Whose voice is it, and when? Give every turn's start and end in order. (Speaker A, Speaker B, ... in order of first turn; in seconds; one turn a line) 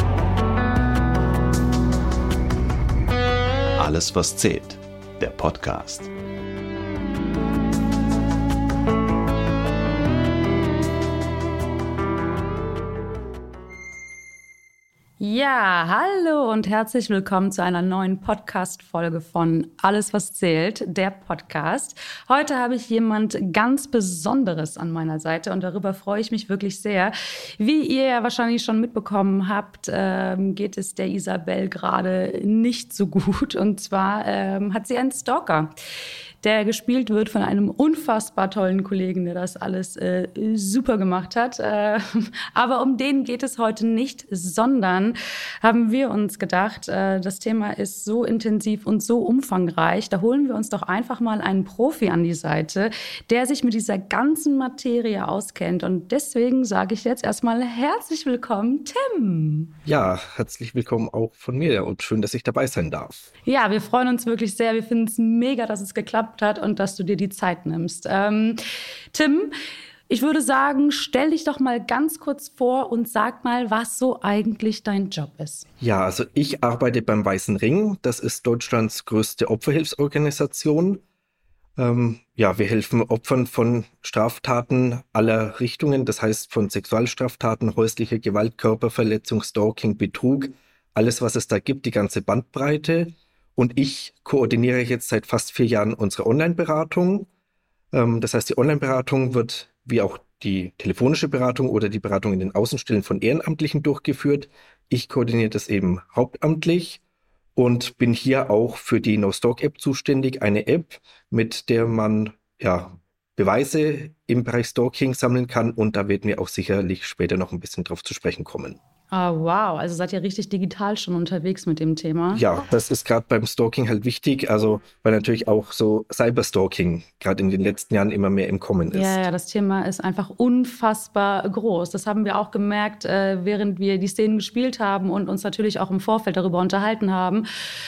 Speaker A: 3.8-6.1
Speaker B: 15.2-35.7
Speaker B: 36.4-59.7
Speaker C: 59.9-63.3
Speaker B: 63.5-68.6
Speaker B: 69.1-69.5
Speaker B: 70.1-75.7
Speaker C: 75.8-81.0
Speaker C: 81.8-97.3
Speaker C: 97.9-107.0
Speaker C: 107.6-118.8
Speaker B: 119.1-122.4
Speaker C: 122.3-129.2
Speaker B: 128.9-137.5